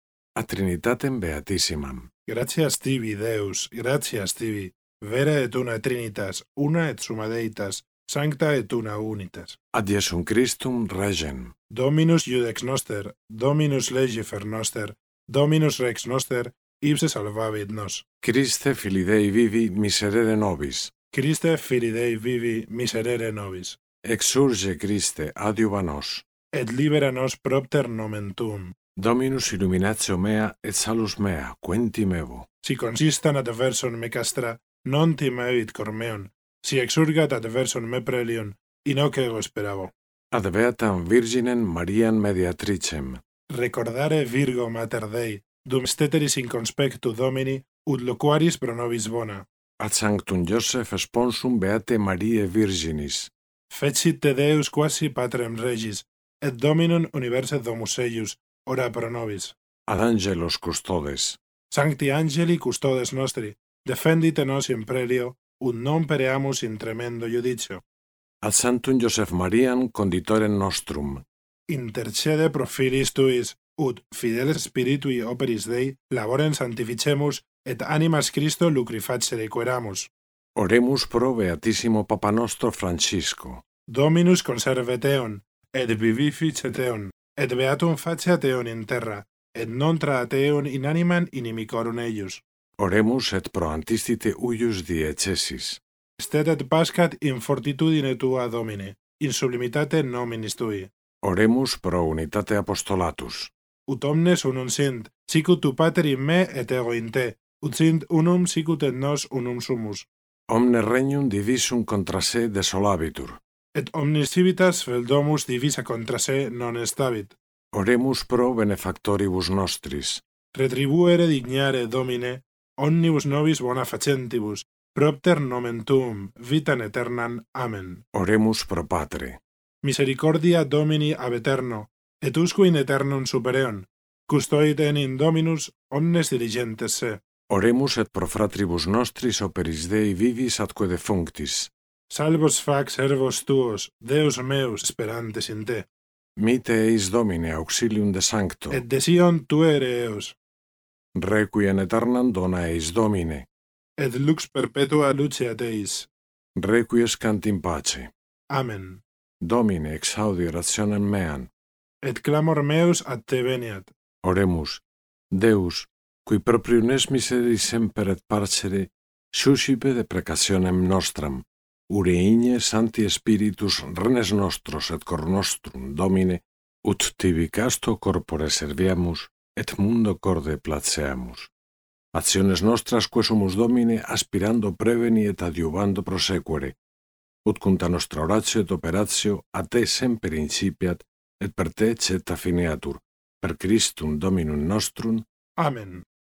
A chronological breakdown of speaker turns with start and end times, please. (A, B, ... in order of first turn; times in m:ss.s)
0:00.4-0:02.1 A
0:02.3-0:09.6 B
0:09.7-0:11.5 A
0:11.7-0:18.0 B
0:18.2-0:20.9 A
0:21.1-0:23.8 B
0:24.0-0:26.2 A
0:26.5-0:28.8 B
0:29.0-0:32.5 A
0:32.6-0:39.9 B
0:40.3-0:43.2 A
0:43.5-0:49.5 B
0:49.8-0:53.3 A
0:53.7-0:59.6 B
0:59.9-1:01.4 A
1:01.7-1:07.8 B
1:08.4-1:11.2 A
1:11.7-1:20.1 B
1:20.6-1:23.6 A
1:23.9-1:32.4 B
1:32.8-1:35.8 A
1:36.2-1:40.9 B
1:41.2-1:43.5 A
1:43.9-1:50.1 B
1:50.5-1:53.4 A
1:53.7-1:57.4 B
1:57.7-2:00.2 A
2:00.5-2:08.0 B
2:08.1-2:09.4 A
2:09.8-2:17.2 B
2:17.5-2:21.7 A
2:22.1-2:25.9 B
2:26.4-2:28.8 A
2:28.7-2:30.4 B
2:31.2-2:33.5 A
2:34.0-2:36.1 B
2:36.6-2:38.1 A
2:38.5-2:39.0 B
2:39.4-2:41.5 A
2:42.0-2:43.9 B
2:44.2-3:01.5 A
3:02.1-3:06.8 A
3:07.4-3:15.2 A
3:15.6-3:16.0 B